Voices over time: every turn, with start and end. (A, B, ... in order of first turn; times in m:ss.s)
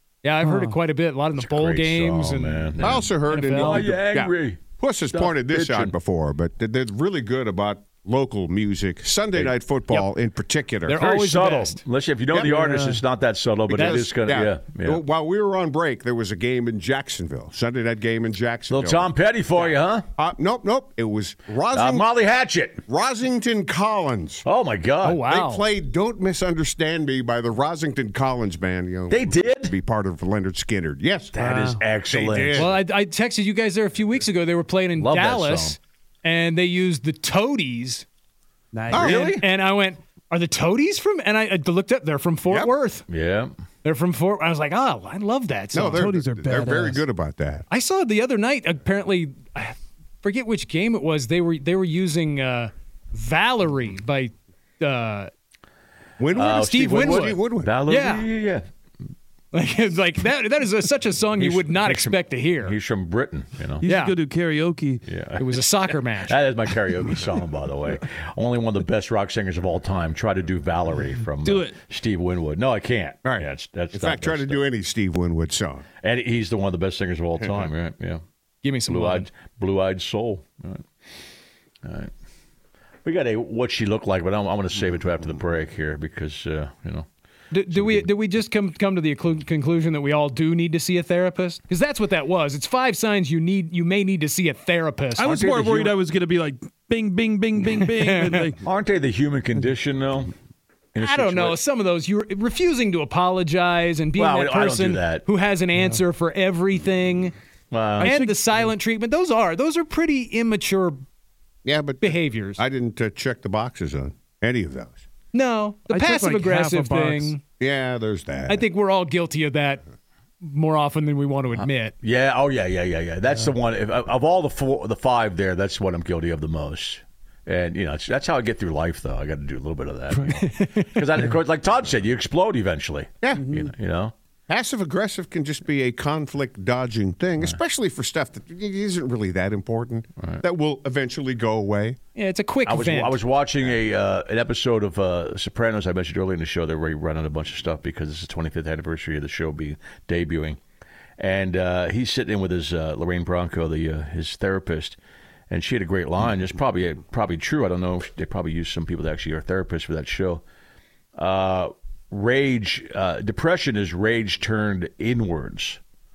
0:00.2-0:04.0 A
0:00.4-0:00.8 B
0:01.4-0:04.6 C
0:02.8-0:11.0 D
0:05.1-0:05.9 C
0:10.8-0:11.8 A
0:11.0-0:15.0 C
0:12.4-0:13.0 B
0:13.7-0:19.1 D
0:18.7-0:20.0 C
0:20.2-0:22.1 D
0:21.7-0:22.8 C
0:22.9-0:24.4 D
0:24.4-0:25.2 C
0:25.0-0:25.6 A
0:25.2-0:31.3 D
0:29.1-0:29.7 C
0:31.3-0:32.7 C
0:31.4-0:31.8 B
0:32.1-0:32.7 D
0:32.5-0:38.0 A
0:35.0-0:35.8 C
0:38.7-0:39.2 B
0:38.9-0:39.2 D
0:38.9-0:39.4 C
0:39.1-0:43.0 A
0:43.1-0:43.5 C
0:43.8-0:46.0 A
0:45.7-0:47.6 D
0:45.8-0:47.0 B
0:47.7-0:55.3 A
0:56.2-0:57.7 D
0:56.3-0:58.6 C
0:56.5-0:58.3 A
0:59.5-1:02.8 A
1:01.4-1:03.8 C
1:03.8-1:05.0 B
1:03.8-1:04.2 A
1:05.0-1:05.6 C
1:05.4-1:06.4 A
1:06.2-1:14.6 C
1:11.4-1:11.8 B
1:13.2-1:15.8 D
1:16.0-1:18.2 C
1:18.6-1:19.3 A
1:18.9-1:20.8 C
1:21.8-1:22.1 C
1:23.0-1:27.0 C
1:27.5-1:35.3 A
1:27.7-1:28.1 C
1:35.2-1:38.6 B
1:35.2-1:36.0 C
1:37.7-1:38.5 A
1:38.6-1:40.3 C
1:40.9-1:41.6 C
1:41.0-1:47.3 A
1:44.2-1:45.2 C
1:47.7-1:48.1 C
1:48.0-1:48.7 B
1:48.0-1:51.0 A
1:51.6-1:55.0 D
1:52.0-1:52.6 A
1:55.3-1:57.4 A
1:55.9-1:57.3 B
1:57.6-1:58.6 D
1:58.5-1:59.8 A
2:00.4-2:01.9 A
2:01.6-2:14.1 C
2:10.4-2:10.7 A
2:13.2-2:13.5 D
2:13.4-2:13.7 B
2:14.5-2:22.0 D
2:22.1-2:23.2 A
2:22.6-2:30.6 C
2:31.2-2:35.0 C
2:35.5-2:40.4 C
2:41.2-2:45.8 C